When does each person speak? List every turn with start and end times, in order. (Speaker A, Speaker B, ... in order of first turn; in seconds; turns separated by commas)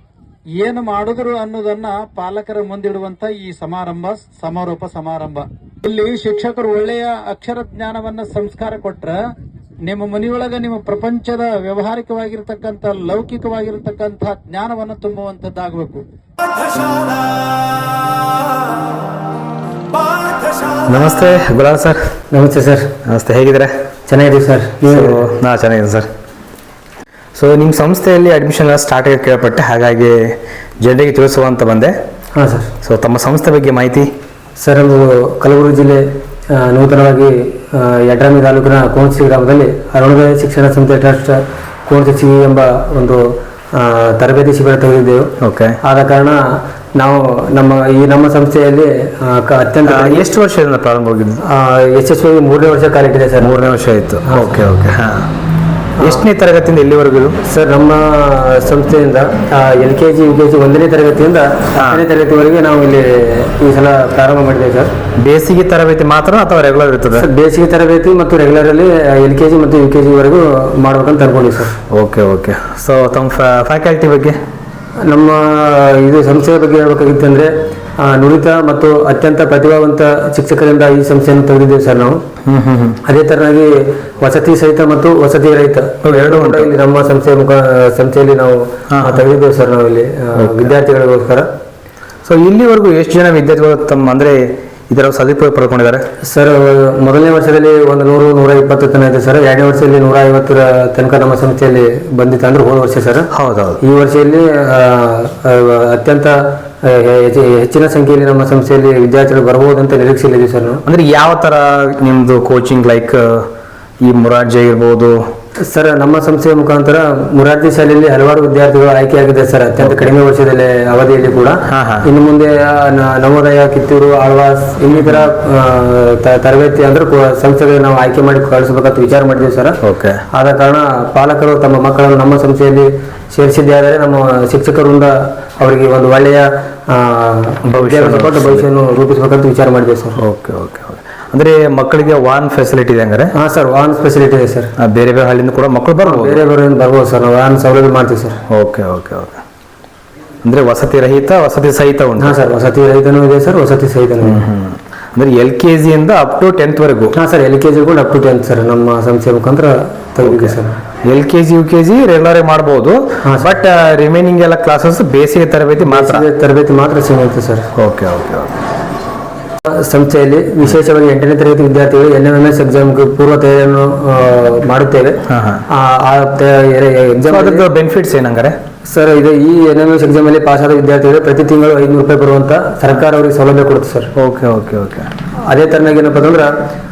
Speaker A: 0.6-9.2, Speaker A: 9.9-16.0, Speaker B: 20.9-22.1, Speaker C: 22.3-22.9, Speaker B: 23.1-23.7, Speaker C: 24.1-25.3, Speaker B: 24.9-26.1, Speaker B: 27.4-32.0, Speaker C: 32.4-32.7, Speaker B: 32.8-34.1, Speaker C: 34.6-50.2, Speaker B: 45.4-45.8, Speaker B: 49.9-51.4, Speaker C: 51.5-53.8, Speaker B: 53.4-55.3, Speaker C: 54.3-54.6, Speaker C: 56.0-56.3, Speaker B: 56.0-57.4, Speaker C: 57.5-64.9, Speaker B: 61.8-62.0, Speaker B: 65.2-67.3, Speaker C: 67.2-71.8, Speaker B: 71.9-74.4, Speaker C: 75.0-82.2, Speaker B: 82.5-83.0, Speaker C: 83.1-91.5, Speaker B: 86.0-86.7, Speaker B: 88.9-89.3, Speaker B: 90.3-90.8, Speaker B: 92.2-96.0, Speaker C: 96.2-103.3, Speaker B: 103.3-103.8, Speaker C: 103.8-110.8, Speaker B: 110.9-113.5, Speaker B: 114.0-115.2, Speaker C: 115.6-129.8, Speaker B: 119.8-120.1, Speaker B: 121.7-122.1, Speaker B: 124.9-125.3, Speaker B: 129.8-130.2, Speaker C: 130.3-140.2, Speaker B: 137.7-138.7, Speaker B: 140.2-143.3, Speaker C: 143.3-144.7, Speaker B: 144.8-146.4, Speaker C: 146.0-148.4, Speaker B: 148.5-149.4, Speaker B: 150.4-152.5, Speaker C: 152.2-154.4, Speaker B: 154.2-157.2, Speaker C: 157.2-160.8, Speaker B: 160.2-166.3, Speaker C: 163.2-163.5, Speaker C: 165.8-167.7, Speaker B: 167.8-168.5, Speaker C: 169.7-177.7, Speaker B: 175.3-175.6, Speaker B: 177.3-178.6, Speaker C: 178.9-184.1, Speaker B: 184.2-185.1, Speaker C: 185.4-186.5